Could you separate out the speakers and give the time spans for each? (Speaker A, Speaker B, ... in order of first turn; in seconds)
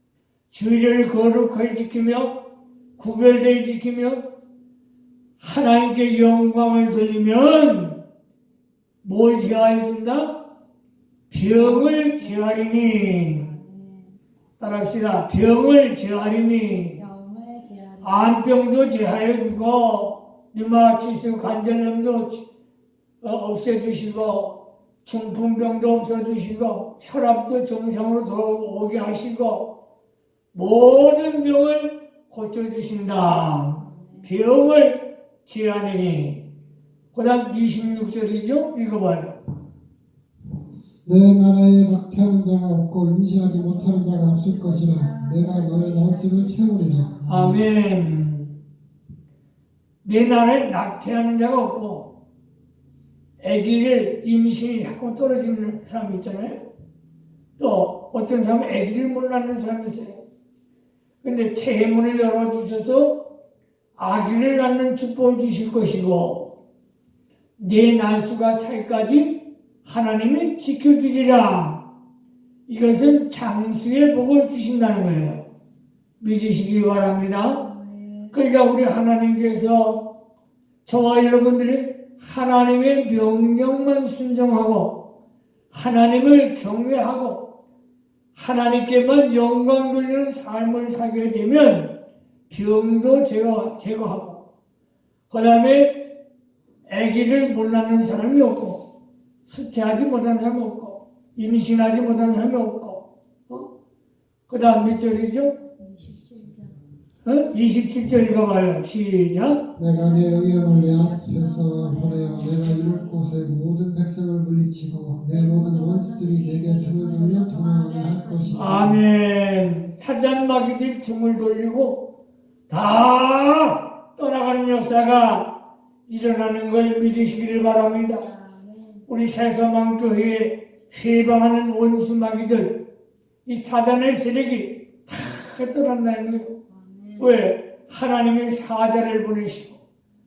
Speaker A: 0.5-2.3, 3.0-4.2, 5.4-8.0, 9.0-10.3, 11.3-13.5, 14.6-17.0, 18.0-22.4, 23.2-29.7, 30.5-36.4, 37.1-39.4, 47.3-48.5, 50.0-52.1, 53.4-56.6, 57.6-60.2, 61.2-63.2, 64.0-66.5, 67.6-71.8, 72.7-75.4, 76.2-77.6, 78.3-80.0, 80.9-85.0, 85.7-87.4, 88.3-91.9, 92.5-94.4, 95.3-96.0, 96.9-98.8, 99.5-103.7, 104.5-105.6, 107.2-109.6, 118.6-122.0, 122.7-125.5, 126.1-128.3, 129.1-132.7, 133.5-136.5, 137.2-139.8
Speaker B: 11.4-14.2, 17.0-18.4, 33.8-34.3, 43.4-47.2, 77.4-78.4, 105.8-106.8, 109.8-113.6, 115.1-118.9, 128.2-129.1, 136.7-137.4
Speaker C: 41.0-47.6, 109.8-119.0